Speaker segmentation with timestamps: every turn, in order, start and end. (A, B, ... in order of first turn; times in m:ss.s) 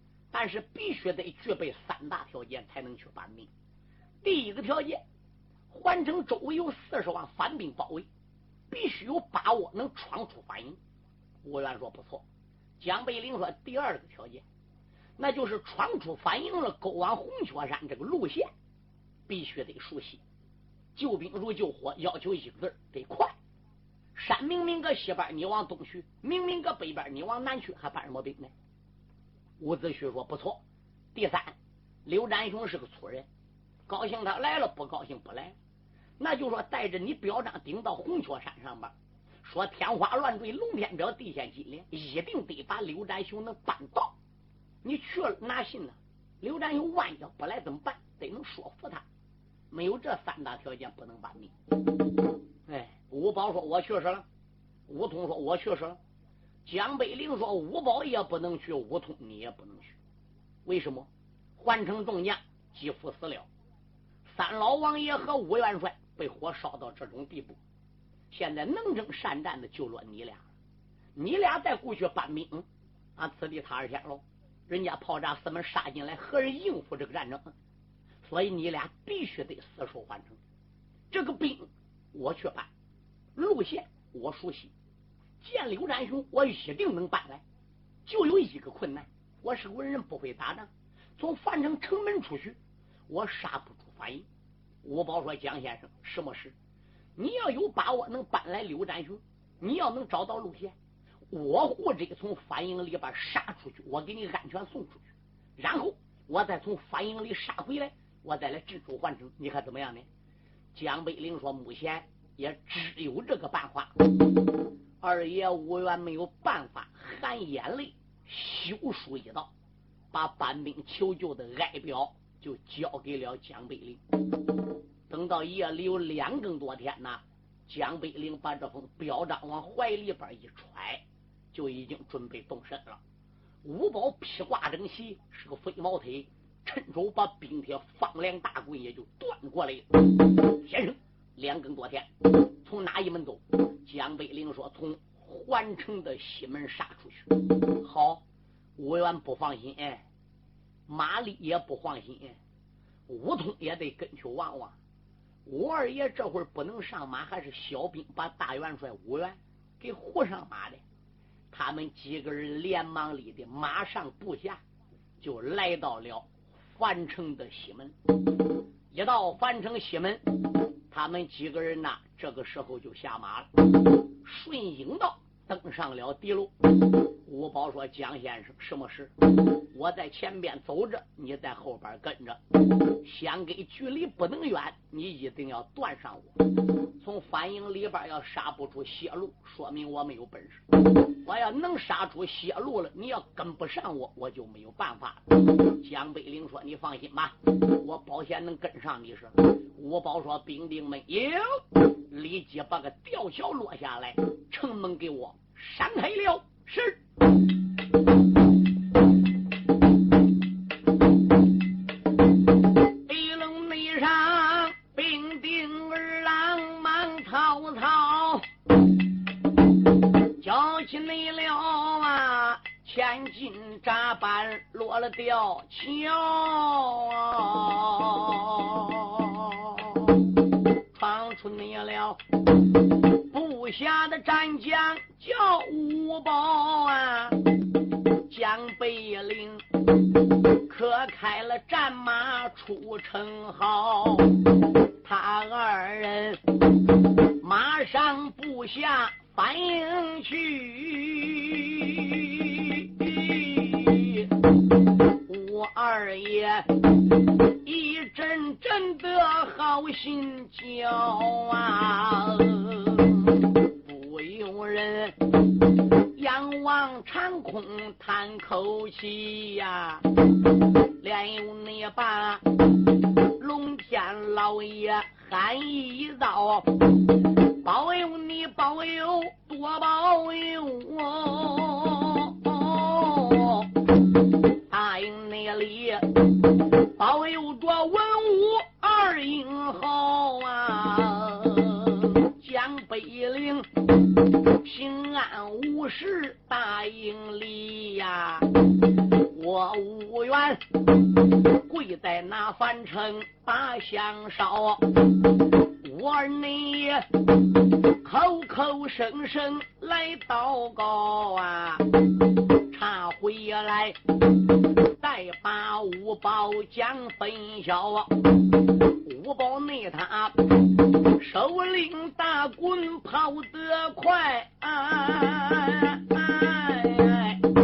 0:00.3-0:03.5 A
0:04.2-0:05.0 A
0:05.7-0:08.0 A
0:08.7-0:10.8 A
0:11.4-0:12.2 A
0:12.8-0:14.4 A
0:15.2-0:18.5 A
0:19.3-0:20.2 A
0:20.9-0:23.3 A
0:24.1-0:28.5 A
0:29.6-0:30.6 A
0:31.1-0:31.5 A
0:32.0-0:33.2 A
0:33.9-0:35.5 A
0:36.2-0:38.9 A
0:39.4-0:44.1 A
0:44.8-0:49.0 A
0:49.7-0:51.5 A
0:52.7-0:54.2 A
0:54.9-0:56.0 A
0:56.6-1:00.0 A
1:00.6-1:03.5 A
1:04.3-1:07.6 A
1:08.3-1:10.4 A
1:11.2-1:12.6 A
1:13.2-1:17.5 A
1:18.2-1:20.4 A
1:21.1-1:22.7 A
1:23.4-1:24.7 A
1:25.4-1:27.4 A
1:28.0-1:32.6 A
1:33.1-1:34.2 A
1:34.8-1:36.5 A
1:37.2-1:40.7 A
1:41.3-1:45.0 A
1:45.6-1:50.1 A
1:50.7-1:53.9 A
1:55.0-1:59.5 A
2:00.1-2:04.0 A
2:05.1-2:11.0 A
2:11.5-2:13.0 A
2:13.6-2:28.2 A
2:28.8-2:30.0 A
2:30.9-2:32.4 A
2:33.1-2:34.8 A
2:35.4-2:40.8 A
2:41.5-2:44.6 A
2:45.2-2:47.9 A
2:48.9-2:50.2 A
2:50.9-2:53.5 A
2:54.2-2:59.1 A
2:59.7-3:02.4 A
3:03.0-3:06.3 A
3:07.0-3:27.0 A
3:33.1-3:38.4 A
3:40.4-3:50.2 A
3:50.9-3:52.2 A
3:53.1-3:57.4 A
3:58.3-3:59.6 A
4:00.5-4:04.4 A
4:05.0-4:06.4 A
4:07.4-4:14.3 A
4:15.1-4:16.8 A
4:17.5-4:25.2 A
4:26.1-4:30.0 A
4:31.0-4:32.4 A
4:33.2-4:36.8 A
4:37.5-4:43.7 A
4:44.7-4:46.3 A
4:46.8-4:53.7 A
4:54.5-4:58.5 A
4:59.2-5:00.6 A
5:01.3-5:05.0 A
5:05.6-5:07.1 A
5:07.9-5:11.9 A
5:12.7-5:14.0 A
5:14.9-5:18.2 A
5:18.9-5:27.4 A